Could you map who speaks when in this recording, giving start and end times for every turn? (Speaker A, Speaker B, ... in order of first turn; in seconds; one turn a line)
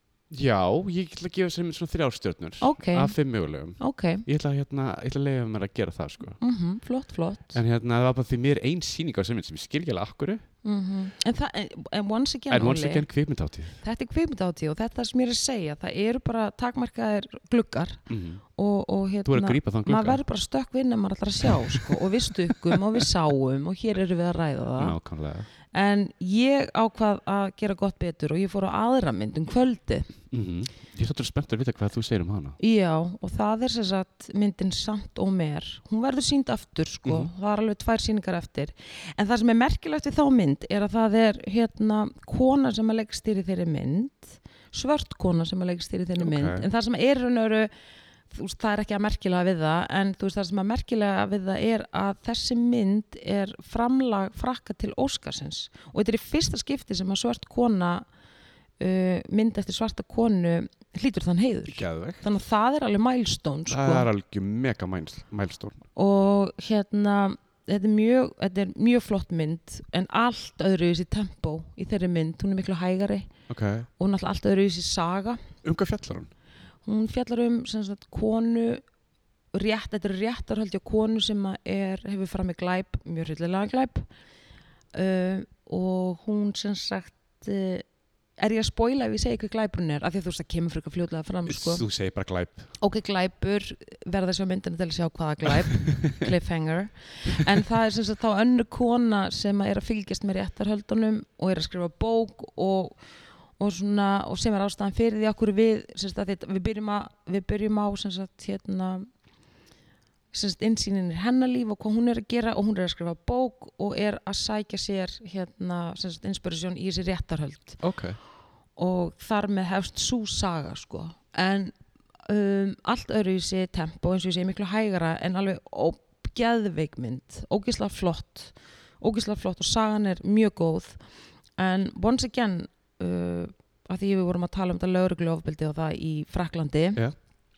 Speaker A: 0.3-6.4
Speaker B: 2.6-3.1
Speaker B: 3.8-4.2
Speaker B: 6.4-7.6
Speaker A: 7.5-10.4
Speaker B: 10.6-13.1
Speaker A: 12.5-13.8
Speaker B: 13.8-18.0
Speaker A: 18.1-18.4
Speaker B: 18.6-25.0
Speaker A: 19.2-20.2
Speaker A: 21.6-22.0
Speaker A: 24.8-25.5
Speaker B: 25.7-30.1
Speaker A: 30.3-32.6
Speaker B: 32.6-47.7
Speaker A: 37.0-37.3
Speaker A: 46.2-46.6
Speaker B: 48.3-58.0
Speaker B: 58.8-64.1
Speaker A: 61.7-62.2
Speaker A: 63.7-65.8
Speaker B: 66.0-73.3
Speaker A: 73.5-73.9
Speaker B: 74.0-75.4
Speaker A: 75.6-76.3
Speaker B: 76.8-78.8
Speaker B: 79.5-84.0
Speaker B: 84.9-87.8
Speaker B: 88.4-91.8
Speaker A: 91.5-92.7
Speaker B: 92.8-103.0
Speaker A: 95.7-96.2
Speaker B: 103.6-109.1
Speaker B: 110.3-117.8
Speaker A: 117.8-118.2
Speaker B: 118.8-121.8
Speaker B: 122.2-131.0
Speaker B: 131.6-137.0